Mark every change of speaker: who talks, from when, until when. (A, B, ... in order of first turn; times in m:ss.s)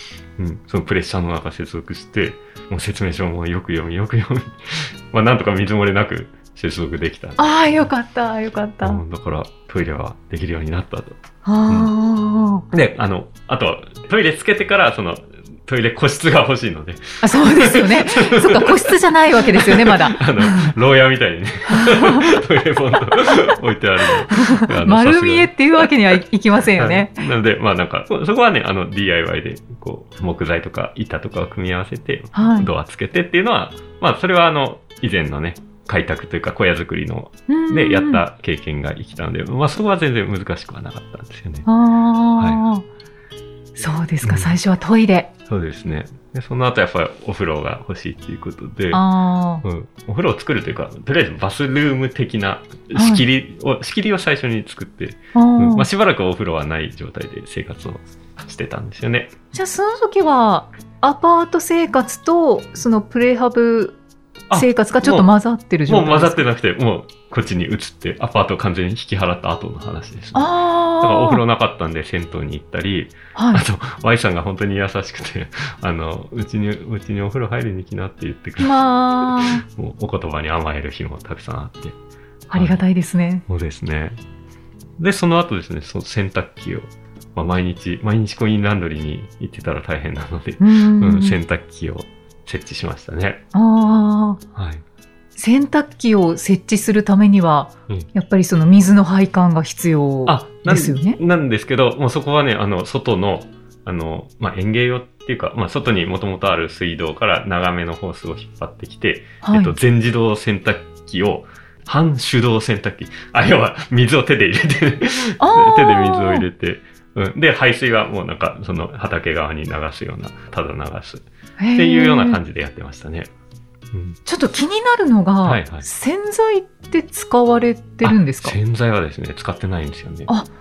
0:00.4-0:07.4 A
0:07.4-0:09.0 B
0:08.8-0:11.9 A
0:11.4-0:12.6 B
0:12.7-0:25.9 A
0:17.2-0:20.7 B
0:21.7-0:22.2 B
0:24.4-0:27.2 B
0:26.8-0:41.7 A
0:32.3-0:32.7 B
0:37.5-0:38.2 B
0:41.7-0:42.8 B
0:43.8-0:45.3 B
0:44.2-0:44.6 A
0:45.5-0:49.0 A
0:48.9-0:49.6 B
0:49.6-0:59.3 A
0:52.9-0:53.2 B
0:55.4-0:55.9 B
0:59.5-1:04.0 B
1:04.5-1:05.3 A
1:04.5-1:06.4 B
1:05.9-1:10.5 A
1:10.4-1:11.4 B
1:11.0-1:22.0 A
1:13.4-1:13.6 B
1:18.6-1:19.6 B
1:22.5-1:22.8 A
1:22.5-1:23.4 B
1:23.5-1:24.2 A
1:25.0-1:33.4 A
1:30.6-1:31.4 B
1:33.5-1:34.4 B
1:34.6-1:34.8 A
1:35.4-1:41.2 B
1:40.3-2:01.2 A
1:49.4-1:49.7 B
1:55.4-1:56.5 B
2:01.6-2:02.4 B
2:01.8-2:03.3 A
2:03.9-2:04.2 A
2:04.3-2:08.6 B
2:05.4-2:05.9 A
2:08.0-2:10.3 A